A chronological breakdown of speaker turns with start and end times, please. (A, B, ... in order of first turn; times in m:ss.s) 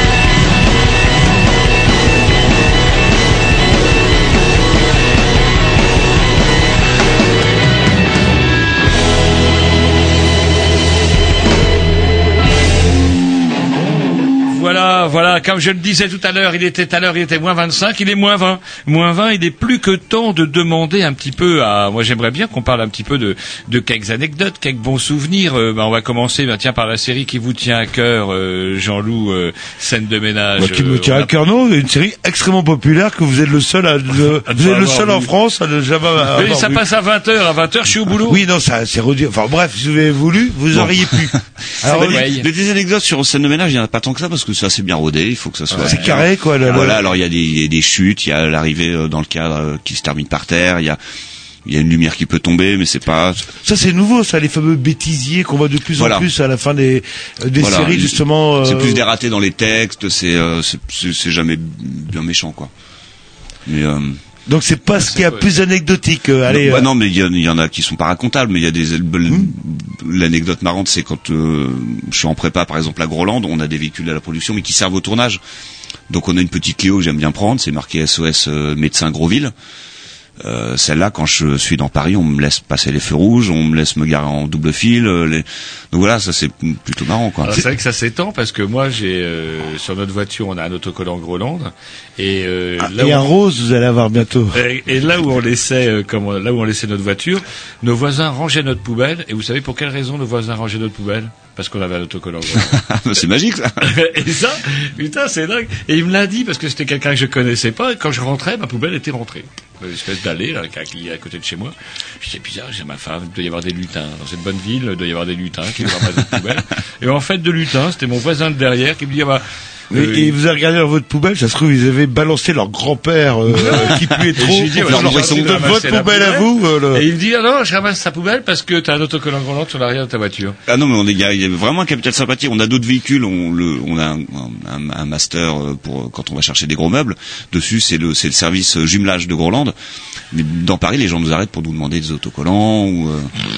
0:14.1-0:31.3 A
0:30.6-0:36.8 B
0:34.4-0:35.3 A
0:36.3-0:38.4 A
0:38.3-0:42.3 B
0:40.7-0:41.3 C
0:41.8-0:42.5 A
0:41.8-0:51.0 C
0:45.7-0:46.9 A
0:45.8-0:47.0 B
0:51.6-0:53.5 C
0:53.6-0:59.0 B
0:56.0-0:56.3 C
0:57.6-1:02.7 C
1:03.6-1:04.2 C
1:04.5-1:06.9 B
1:05.0-1:05.5 A
1:06.5-1:15.4 C
1:09.2-1:09.5 B
1:16.1-1:19.5 C
1:20.4-1:27.6 C
1:27.4-1:33.3 A
1:32.8-1:34.6 B
1:34.5-1:42.8 A
1:42.6-1:43.9 C
1:43.8-2:00.3 A
1:59.9-2:07.0 B
2:03.5-2:10.6 A
2:04.8-2:05.8 C
2:10.7-2:19.7 C
2:20.3-2:23.3 C